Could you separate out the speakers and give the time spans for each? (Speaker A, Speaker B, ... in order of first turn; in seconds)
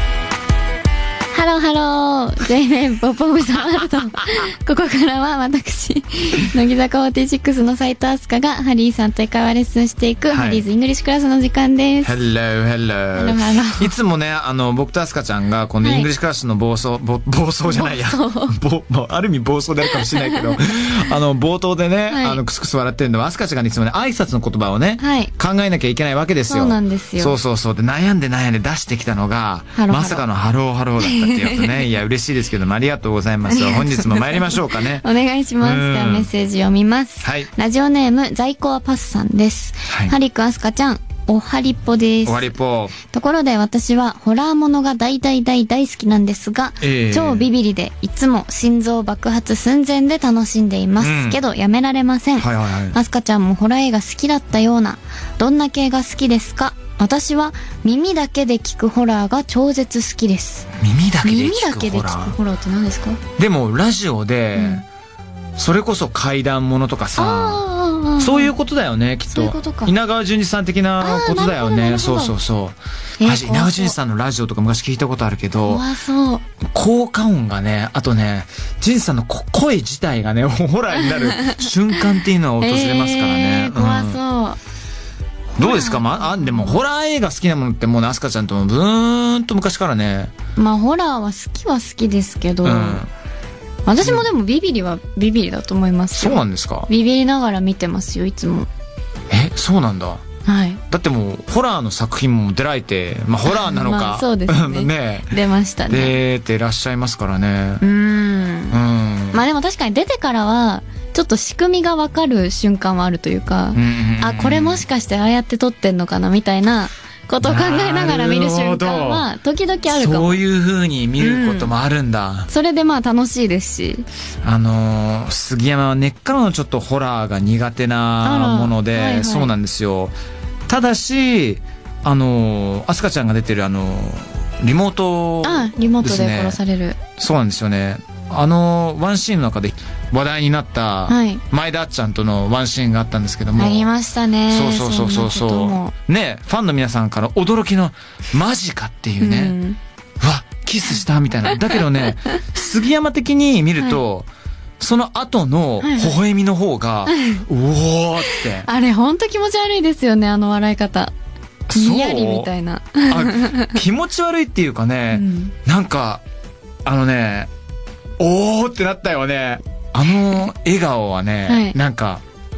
Speaker A: 1.3-12.2, 13.2-13.9, 15.8-16.1, 17.7-18.6, 19.9-20.6, 22.1-22.4, 25.0-25.3, 26.5-27.4, 29.8-30.2, 31.0-31.9, 33.5-60.7, 61.2-63.2, 64.6-64.8, 67.2-68.5, 69.3-69.9, 71.0-72.4, 73.2-74.0, 75.7-76.5, 82.6-84.6, 85.6-86.8, 90.6-93.0, 93.9-98.7, 100.5-100.8, 103.5-106.2, 107.8-108.8, 109.3-120.4, 121.2-121.7, 122.5-124.1, 128.2-129.5, 135.4-137.0, 141.1-141.4, 143.6-145.9, 149.2-149.8, 155.8-156.2, 157.1-157.4, 158.2-161.1, 161.7-163.8, 165.1-165.5, 171.5-171.8
Speaker B: 10.3-10.7, 12.0-35.0, 35.6-36.3, 37.2-37.5, 39.9-40.1, 42.3-43.0, 46.8-47.5, 51.0-51.4, 52.4-53.0, 60.8-62.4, 63.4-64.9, 65.6-67.7, 68.2-75.9, 76.6-84.2, 85.6-90.3, 92.6-93.1, 94.0-94.3, 96.2-96.9, 99.3-100.2, 100.9-107.8, 108.7-109.4, 113.7-114.9, 117.4-119.3, 119.9-122.5, 124.4-130.2, 130.7-136.6, 137.2-143.9, 144.5-149.6, 150.2-154.3, 154.8-158.7, 161.7-162.5, 163.1-166.2, 166.8-167.5, 168.2-172.2